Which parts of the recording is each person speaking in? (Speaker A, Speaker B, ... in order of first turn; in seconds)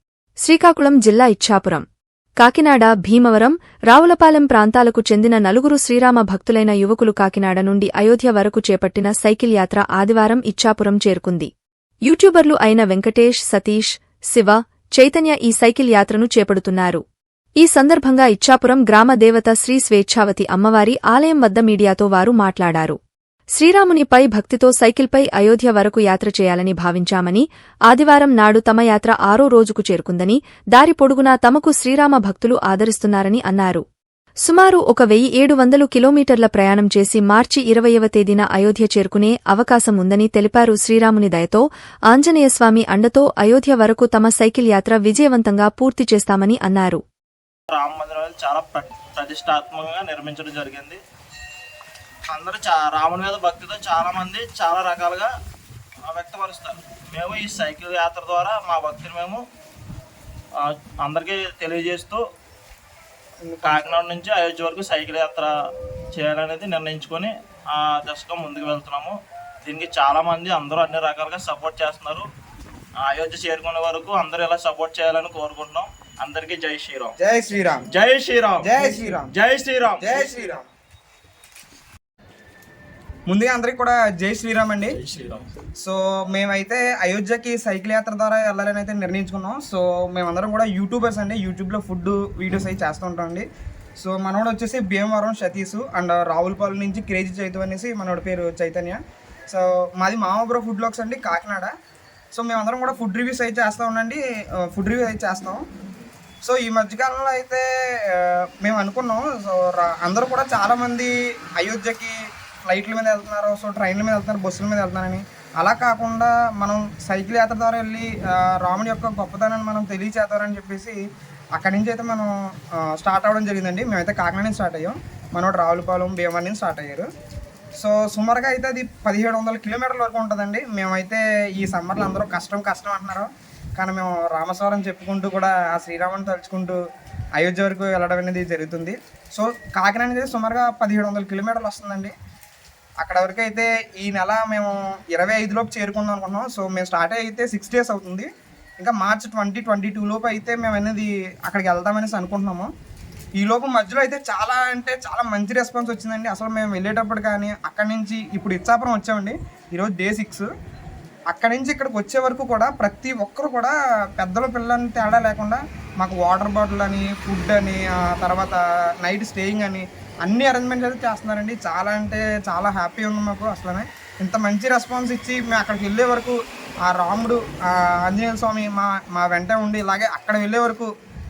Speaker A: 0.4-1.9, 2.4-11.5, 12.1-17.0, 17.6-23.0, 23.6-33.8, 34.4-47.0
Speaker B: 47.7-51.0, 52.3-55.3, 56.1-59.4, 60.6-62.2, 63.6-65.5, 66.1-72.3, 73.0-77.1, 77.9-80.2, 85.0-85.5
Speaker C: 63.4-64.0, 77.2-77.8, 78.6-79.3, 80.0-80.7, 83.3-85.0, 85.8-93.5, 94.0-99.0, 99.5-101.7, 102.3-105.6, 106.4-121.0, 121.5-127.1, 127.8-136.8, 137.4-142.1, 143.0-148.3, 148.8-152.7, 153.4-160.5, 161.3-180.9